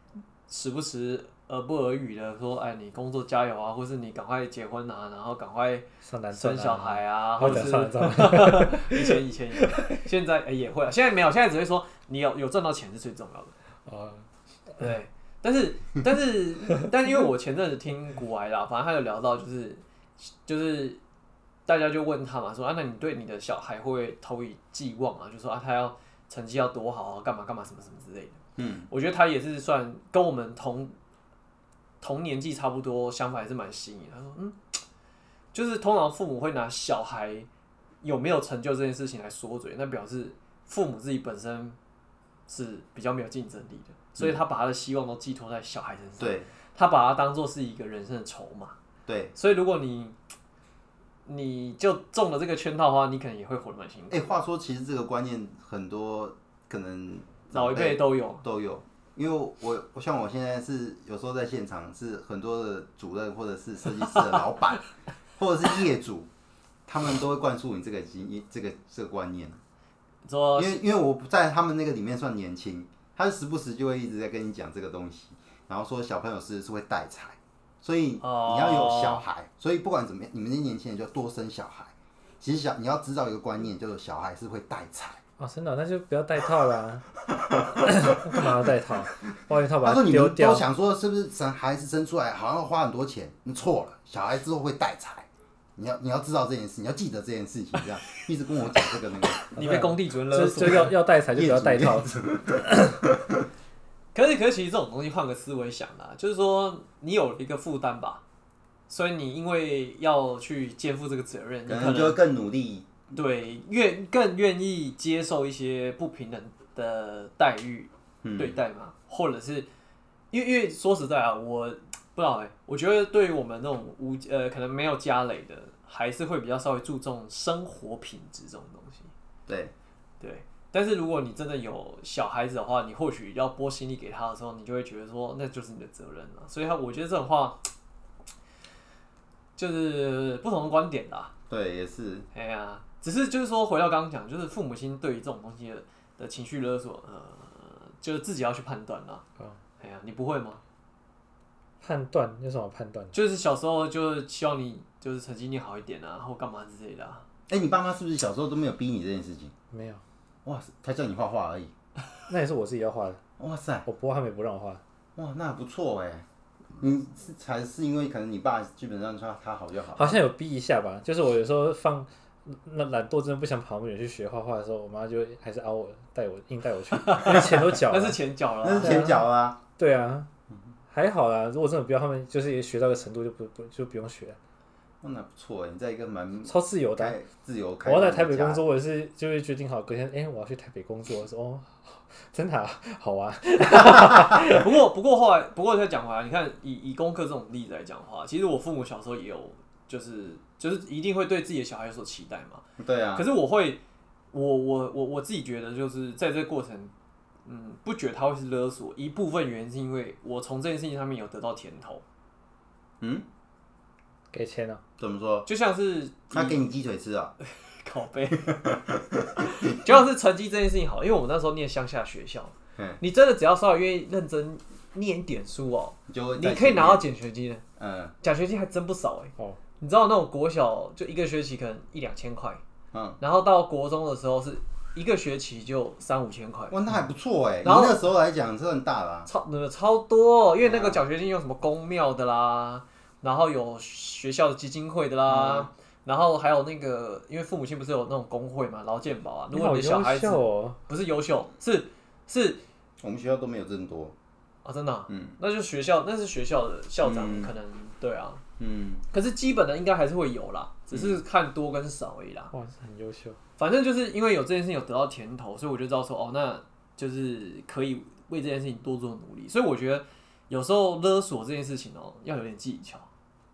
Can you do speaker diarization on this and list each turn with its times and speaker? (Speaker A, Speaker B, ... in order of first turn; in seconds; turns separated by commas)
Speaker A: 0.5-13.5, Speaker B: 6.0-9.2, Speaker B: 13.9-14.2, Speaker A: 14.8-21.0, Speaker A: 21.7-30.9, Speaker C: 28.6-28.9, Speaker A: 32.0-34.8, Speaker A: 35.5-37.5, Speaker A: 38.0-41.8, Speaker A: 42.5-48.8, Speaker C: 46.2-46.5, Speaker C: 49.1-49.3, Speaker A: 49.4-50.2, Speaker A: 51.3-54.2, Speaker C: 54.1-66.3, Speaker A: 57.5-58.4, Speaker C: 66.9-69.6, Speaker A: 70.2-70.8, Speaker C: 70.6-85.2, Speaker A: 78.2-79.2, Speaker B: 85.4-87.1, Speaker B: 87.7-90.7, Speaker C: 89.8-95.3, Speaker C: 95.8-99.5, Speaker A: 99.4-100.9, Speaker B: 99.5-103.0, Speaker C: 101.3-102.7, Speaker A: 104.1-108.2, Speaker A: 108.9-112.2, Speaker C: 111.7-112.9, Speaker A: 113.1-119.7, Speaker C: 118.2-118.6, Speaker A: 120.3-129.1, Speaker C: 129.5-129.7, Speaker A: 130.2-137.7, Speaker A: 139.6-141.3, Speaker C: 141.5-142.3, Speaker A: 142.3-149.2, Speaker A: 149.8-150.6, Speaker B: 151.8-153.2, Speaker A: 153.1-157.2, Speaker C: 157.5-159.5, Speaker B: 159.7-160.0, Speaker C: 160.4-161.7, Speaker B: 162.3-163.2, Speaker C: 163.4-163.9, Speaker B: 163.9-164.8, Speaker C: 165.2-166.2, Speaker C: 166.8-170.2, Speaker B: 170.0-178.2, Speaker A: 177.0-179.1, Speaker C: 177.3-177.8, Speaker C: 178.6-179.6, Speaker B: 178.8-179.2, Speaker B: 179.8-180.3, Speaker B: 180.9-184.4, Speaker C: 185.0-188.6, Speaker B: 186.5-187.2, Speaker B: 187.8-194.7, Speaker A: 194.3-202.6, Speaker C: 202.8-203.3, Speaker A: 203.2-203.8, Speaker A: 204.3-206.9, Speaker A: 207.5-212.0, Speaker C: 213.0-213.3, Speaker B: 214.3-214.8, Speaker C: 215.0-215.5, Speaker A: 215.5-216.6, Speaker C: 216.3-217.3, Speaker A: 217.5-218.6, Speaker C: 218.3-219.8, Speaker A: 219.4-227.6, Speaker C: 226.1-227.1, Speaker C: 227.8-228.1, Speaker A: 228.2-232.6, Speaker C: 232.9-233.2, Speaker A: 233.2-236.8, Speaker C: 236.7-239.3, Speaker A: 237.6-238.0, Speaker A: 239.3-252.6, Speaker C: 240.7-241.0, Speaker C: 245.3-245.7, Speaker B: 249.5-250.8, Speaker C: 253.0-254.1, Speaker A: 254.6-258.4, Speaker C: 255.1-255.4, Speaker C: 257.0-257.5, Speaker C: 258.6-259.0, Speaker A: 259.1-262.5, Speaker C: 260.9-261.2, Speaker B: 262.5-263.4, Speaker A: 263.6-273.1